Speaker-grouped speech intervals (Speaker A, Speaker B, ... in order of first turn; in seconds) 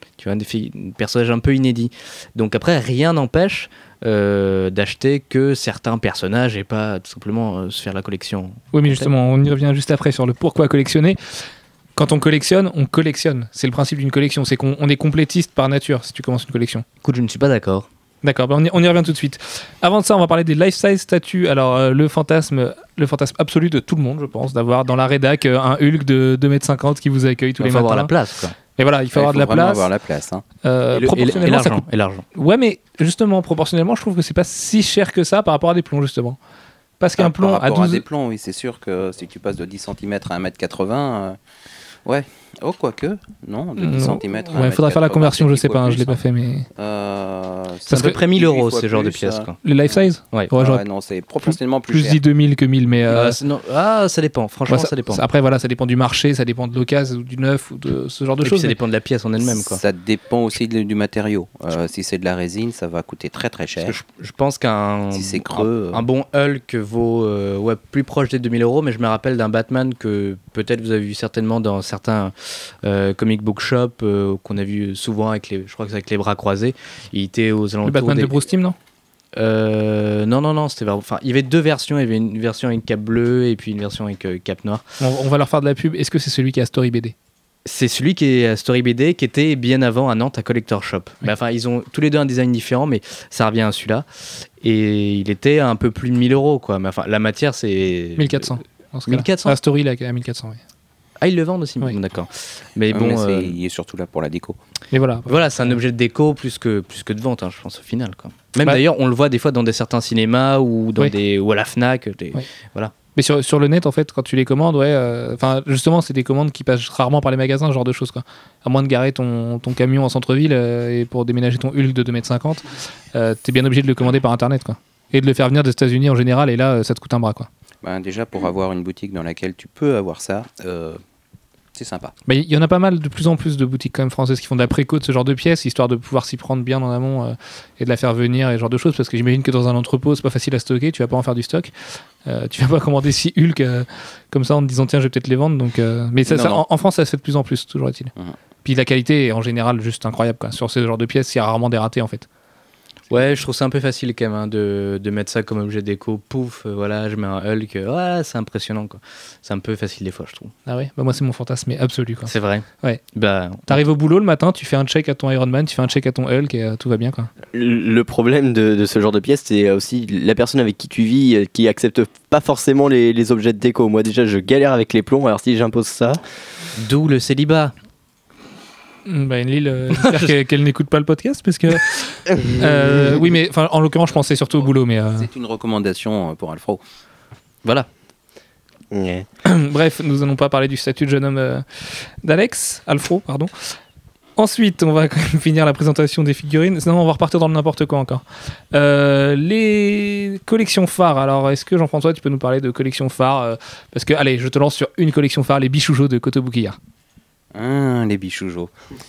Speaker A: 0.2-9.1, 17.0-17.9, 27.6-28.6, 30.9-32.2, 47.9-49.6, 53.1-55.2, 58.4-59.8, 63.8-78.4, 79.4-84.9, 87.7-94.1, 94.6-99.6, 101.2-103.6, 105.3-112.9, 153.1-160.5, 162.3-163.7, 176.8-177.7, 180.0-180.3
Speaker B: 8.7-16.9, 18.2-28.1, 28.8-29.9, 30.6-36.4, 37.0-38.0, 43.8-46.7, 47.9-48.2, 49.6-50.8, 51.5-53.4, 54.7-58.8, 77.8-78.8, 85.0-87.1, 98.2-100.6, 104.9-105.8, 113.2-127.5, 132.3-148.1, 148.6-152.3, 160.7-163.0, 163.7-167.3, 179.1-185.3, 189.4-193.8, 194.4-206.8
Speaker C: 29.1-30.4, 31.1-31.5, 37.2-41.4, 42.0-46.2, 46.8-52.2, 59.4-64.0, 65.1-66.0, 102.9-104.6, 127.8-131.0, 131.7-132.1, 146.3-146.6, 185.2-186.8, 207.5-208.7
Speaker D: 167.5-176.2, 182.3-183.2, 188.9-189.3